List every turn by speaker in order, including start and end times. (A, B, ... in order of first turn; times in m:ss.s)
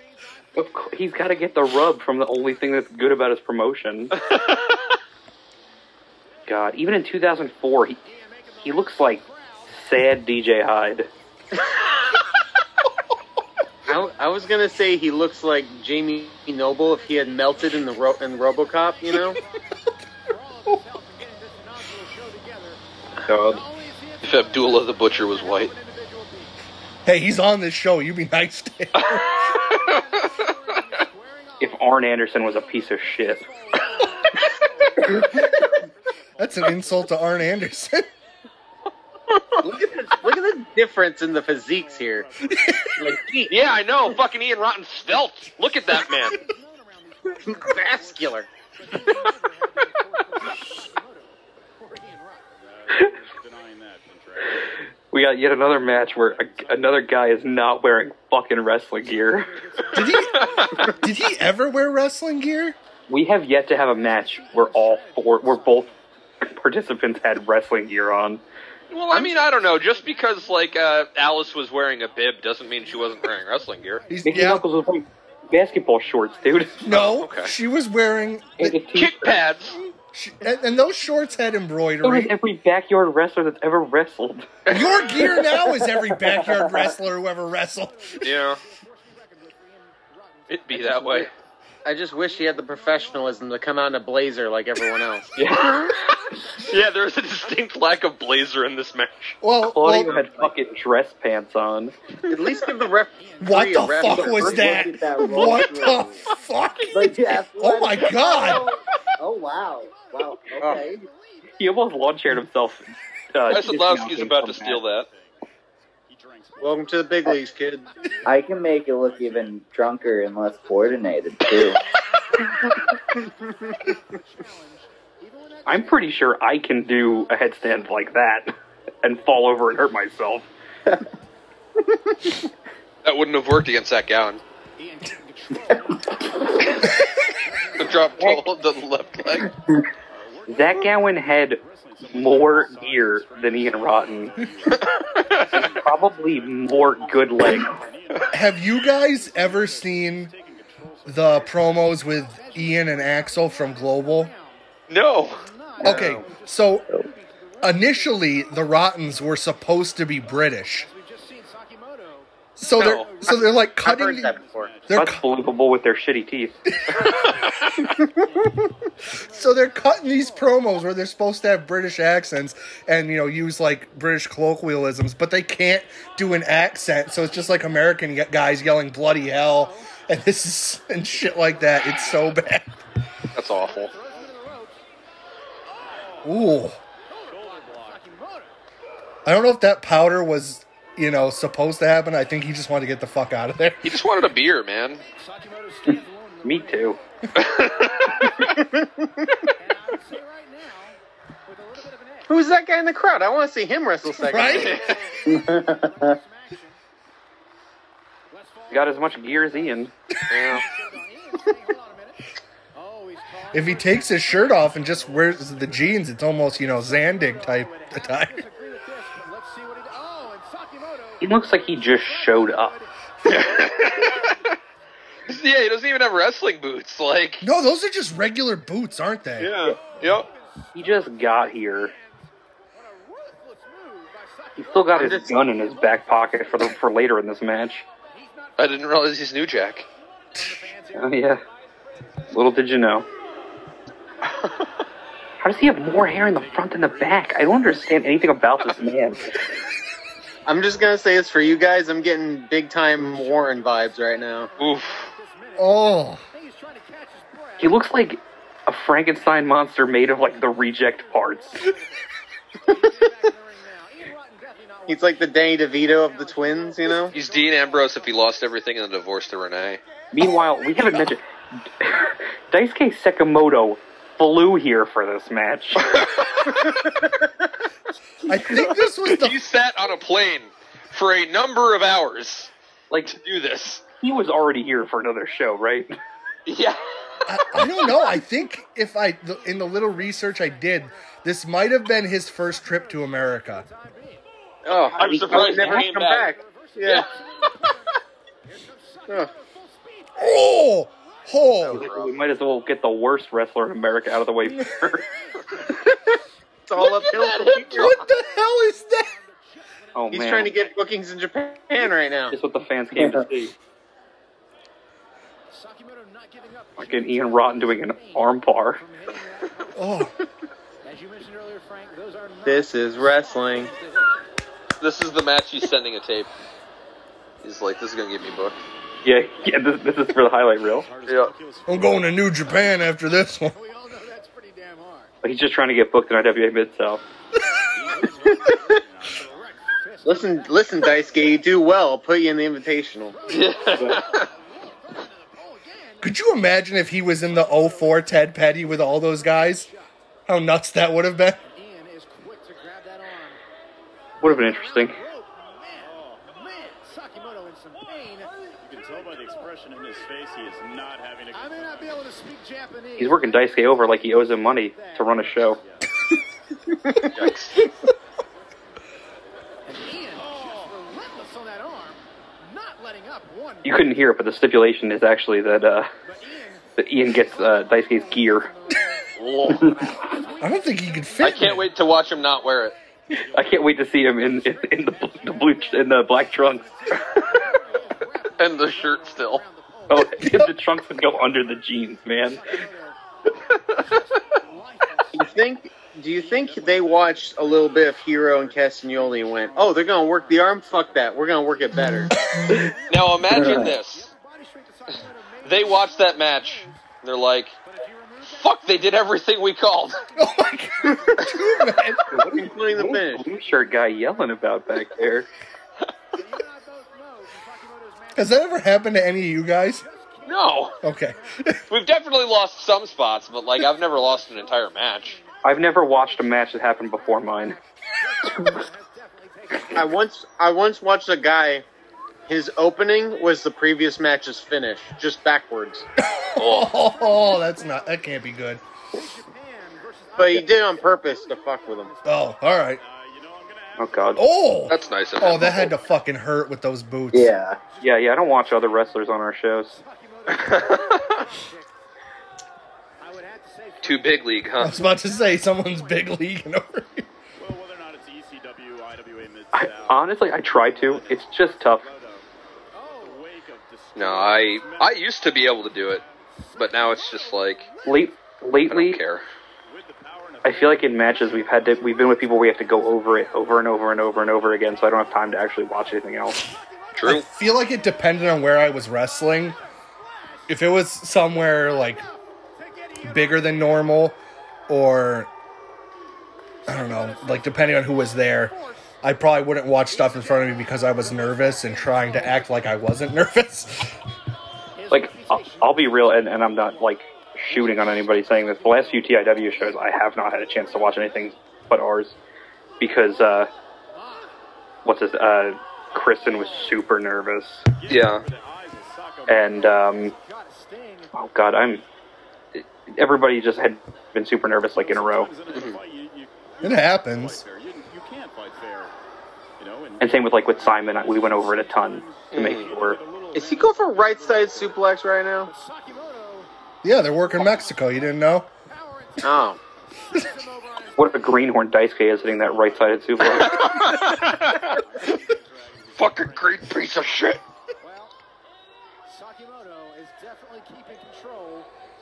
0:00.6-0:04.2 A
0:04.2-0:04.6 B
0:06.5-0:08.0 A
0:08.0-0:09.8 C
0:08.6-0:11.1 A
0:13.9-0:19.4 D
0:17.1-0:17.5 C
0:18.3-0:19.6 C
0:20.3-0:22.8 C
0:23.2-0:23.6 A
0:23.3-0:26.5 C
0:24.2-0:25.7 B
0:27.0-0:29.3 E
0:28.9-0:30.3 B
0:29.1-0:35.9 C
0:31.6-0:33.4 A
0:35.1-0:35.6 E
0:36.4-0:38.1 E
0:39.6-0:42.3 D
0:39.9-0:40.5 C
0:42.5-0:43.0 E
0:43.0-0:43.6 D
0:43.5-0:46.4 B
0:46.3-0:52.4 C
0:47.4-0:48.5 D
0:52.6-0:54.7 F
0:55.1-0:59.5 A
0:56.0-0:56.9 F
0:59.4-1:01.4 C
0:59.9-1:02.8 E
1:00.3-1:00.9 B
1:03.1-1:05.9 A
1:04.0-1:06.0 C
1:06.4-1:08.4 A
1:08.9-1:14.0 B
1:09.1-1:09.4 D
1:09.7-1:10.6 C
1:12.5-1:14.5 C
1:14.1-1:14.6 E
1:14.2-1:16.8 A
1:16.3-1:17.1 C
1:16.8-1:18.8 E
1:16.9-1:17.5 B
1:18.6-1:19.4 A
1:18.9-1:19.8 B
1:19.8-1:22.3 E
1:22.0-1:24.5 A
1:24.6-1:25.0 B
1:24.7-1:28.4 E
1:25.8-1:26.9 G
1:28.2-1:28.6 B
1:28.6-1:31.3 C
1:30.5-1:31.3 B
1:31.8-1:35.3 D
1:32.5-1:33.2 C
1:35.4-1:36.1 A
1:35.6-1:36.0 B
1:36.6-1:39.4 B
1:39.4-1:40.4 E
1:39.6-1:41.9 A
1:42.3-1:44.7 D
1:43.2-1:46.3 C
1:43.4-1:48.7 E
1:44.1-1:46.2 G
1:46.9-1:51.0 G
1:48.0-1:48.6 C
1:49.4-1:51.5 C
1:50.6-1:50.8 D
1:51.6-1:54.8 A
1:53.5-1:55.1 B
1:55.0-1:55.4 F
1:56.1-1:57.1 F
1:56.6-1:57.9 D
1:58.0-1:58.8 C
1:58.2-2:01.8 G
2:00.5-2:06.2 C
2:05.6-2:10.5 A
2:13.0-2:14.4 B
2:14.8-2:18.3 C
2:17.8-2:19.5 B
2:20.1-2:31.4 F
2:20.5-2:24.3 A
2:24.7-2:25.7 B
2:25.5-2:27.8 A
2:28.3-2:30.3 E
2:31.0-2:34.3 E
2:32.1-2:34.6 C
2:34.9-2:35.4 B
2:35.4-2:38.5 C
2:35.8-2:36.9 E
2:35.8-2:36.2 D
2:37.6-2:40.9 E
2:40.6-2:42.3 C
2:42.6-2:44.4 E
2:42.8-2:43.1 B
2:42.9-2:44.7 D
2:42.9-2:43.4 C
2:44.4-2:45.1 F
2:44.9-2:45.2 E
2:44.9-2:46.5 A
2:46.8-2:47.2 E
2:47.0-2:47.8 B
2:49.2-3:02.8 E
3:03.3-3:03.9 B
3:03.6-3:04.8 C
3:06.2-3:06.8 E
3:07.1-3:08.5 C
3:07.3-3:08.0 F
3:09.2-3:14.0 E
3:13.8-3:15.0 B
3:15.2-3:17.4 C
3:16.4-3:17.0 A
3:17.3-3:18.5 B
3:18.2-3:18.5 C
3:18.6-3:19.3 D
3:19.6-3:22.3 C
3:22.3-3:24.9 D
3:24.2-3:24.8 E
3:24.3-3:26.8 C
3:24.4-3:25.0 B
3:25.2-3:26.2 G
3:28.3-3:32.2 C
3:28.7-3:29.9 A
3:30.3-3:30.6 B
3:32.7-3:35.6 C
3:33.5-3:38.4 E
3:36.6-3:44.5 C
3:41.2-3:42.8 A
3:43.2-3:44.5 B
3:45.3-3:47.4 B
3:47.4-3:49.6 E
3:49.4-3:50.3 B
3:50.0-3:50.6 C
3:50.7-3:51.9 A
3:52.8-3:56.6 C
3:54.6-3:57.8 A
3:54.9-3:55.3 D
3:58.1-3:58.5 C
3:58.6-3:59.8 B
4:00.3-4:01.3 C
4:00.9-4:01.4 A
4:02.3-4:03.0 A
4:05.4-4:09.4 A
4:10.4-4:14.5 D
4:13.1-4:17.8 C
4:14.6-4:15.1 B
4:15.6-4:16.2 E
4:17.6-4:21.6 A
4:22.6-4:27.2 C
4:24.9-4:27.2 D
4:27.1-4:29.8 B
4:30.1-4:31.2 A
4:31.8-4:36.0 A
4:35.8-4:36.8 B
4:38.3-4:39.4 E
4:38.6-4:42.5 B
4:42.9-4:43.2 A
4:43.0-4:43.8 B
4:44.0-4:46.0 A
4:46.4-4:46.8 B
4:47.3-4:53.6 E
4:52.6-4:54.2 C
4:54.6-4:57.1 D
4:54.7-4:56.3 B
4:55.0-4:55.9 A
4:56.2-4:58.0 C
4:56.8-4:57.1 B
4:58.5-5:00.2 C
5:00.2-5:01.8 E
5:01.6-5:02.1 D
5:01.7-5:05.0 A
5:05.0-5:05.5 C
5:06.7-5:08.0 D
5:06.8-5:08.0 B
5:07.7-5:09.1 E
5:08.1-5:09.4 C
5:09.9-5:10.5 A
5:10.1-5:12.4 D
5:12.3-5:13.5 A
5:15.5-5:20.0 C
5:16.8-5:18.8 A
5:19.7-5:20.1 E
5:20.8-5:23.8 C
5:22.4-5:23.7 D
5:24.8-5:26.3 B
5:27.4-5:28.6 B
5:29.0-5:30.9 A
5:30.8-5:32.7 F
5:31.0-5:31.3 B
5:31.7-5:33.6 E
5:33.5-5:35.1 C
5:35.2-5:37.0 A
5:37.7-5:39.6 F
5:39.7-5:41.3 C
5:40.0-5:43.2 D
5:43.1-5:46.1 C
5:43.3-5:44.3 B
5:43.8-5:44.0 A
5:46.0-5:49.7 E
5:47.2-5:48.1 C
5:49.2-5:49.8 C
5:50.3-5:51.4 E
5:51.5-5:53.4 C
5:54.2-5:55.0 A
5:54.5-5:58.4 C
5:55.8-5:56.2 F
5:58.6-6:02.0 F
6:01.3-6:03.4 C
6:03.0-6:05.6 A
6:04.8-6:05.3 C
6:05.5-6:05.8 F
6:07.1-6:07.6 B
6:09.7-6:13.7 C
6:10.2-6:10.7 F
6:13.6-6:15.9 A
6:16.1-6:16.7 C
6:16.8-6:18.5 A
6:17.4-6:21.4 C
6:19.2-6:19.9 B
6:20.4-6:21.7 E
6:21.2-6:22.7 B
6:23.3-6:26.6 A
6:26.6-6:30.4 C
6:28.4-6:29.4 B
6:29.9-6:32.6 A
6:30.2-6:30.5 E
6:32.3-6:33.0 C
6:33.8-6:35.3 C
6:35.1-6:42.1 D
6:36.4-6:37.0 C
6:37.6-6:38.5 F
6:39.4-6:41.4 F
6:39.6-6:39.9 C
6:42.5-6:43.1 C
6:42.9-6:44.1 B
6:43.4-6:43.7 G
6:44.0-6:46.8 C
6:45.4-6:47.6 B
6:47.7-6:48.3 C
6:48.2-6:50.0 B
6:50.0-6:52.0 C
6:50.2-6:52.1 E
6:52.1-6:55.3 A
6:52.3-6:53.2 D
6:56.2-6:58.9 C
6:58.1-6:59.8 E
6:59.7-7:01.1 C
7:00.2-7:00.7 B
7:00.8-7:01.6 E
7:01.7-7:05.2 B
7:05.4-7:07.6 A
7:07.4-7:09.9 C
7:08.2-7:08.6 A
7:09.7-7:11.6 D
7:12.3-7:15.9 D
7:16.0-7:18.6 E
7:16.4-7:16.7 B
7:17.0-7:17.3 C
7:18.9-7:22.1 C
7:20.2-7:21.9 D
7:22.0-7:22.8 E
7:22.7-7:24.2 F
7:23.8-7:24.2 A
7:24.2-7:27.3 E
7:24.7-7:25.7 B
7:27.1-7:27.6 G
7:27.6-7:29.0 C
7:27.8-7:29.8 A
7:29.7-7:31.6 C
7:30.3-7:31.2 B
7:33.0-7:34.7 C
7:33.8-7:34.7 B
7:34.6-7:37.0 E
7:37.4-7:42.2 F
7:39.5-7:41.9 A
7:42.7-7:43.2 C
7:42.9-7:44.9 F
7:43.9-7:46.0 B
7:46.6-7:47.7 B
7:47.8-7:49.0 A
7:48.7-7:49.2 B
7:49.7-7:50.8 F
7:50.4-7:56.4 A
7:56.5-7:57.1 C
7:56.9-7:57.2 B
7:57.0-7:59.6 E
8:00.5-8:02.0 E
8:01.6-8:02.1 C
8:02.6-8:03.0 C
8:03.0-8:04.2 E
8:04.7-8:05.3 E
8:06.7-8:07.9 C
8:06.7-8:14.0 E
8:09.9-8:12.5 C
8:14.8-8:15.6 C
8:14.9-8:22.1 A
8:22.8-8:23.5 A
8:24.8-8:27.6 A
8:27.8-8:29.6 F
8:27.9-8:28.2 B
8:29.3-8:30.1 A
8:30.1-8:31.1 C
8:31.1-8:31.8 A
8:32.5-8:35.3 A
8:34.8-8:38.9 F
8:35.5-8:35.8 B
8:36.6-8:37.4 E
8:39.6-8:44.8 F
8:40.0-8:43.0 A
8:42.3-8:42.7 B
8:43.3-8:45.5 D
8:45.5-8:46.5 C
8:46.8-8:48.5 E
8:48.7-8:49.4 C
8:49.2-8:49.6 D
8:50.1-8:51.1 C
8:51.0-8:53.8 A
8:53.2-8:54.8 B
8:54.8-8:56.6 F
8:56.0-8:57.4 B
8:57.8-8:58.1 C
8:59.1-9:01.7 C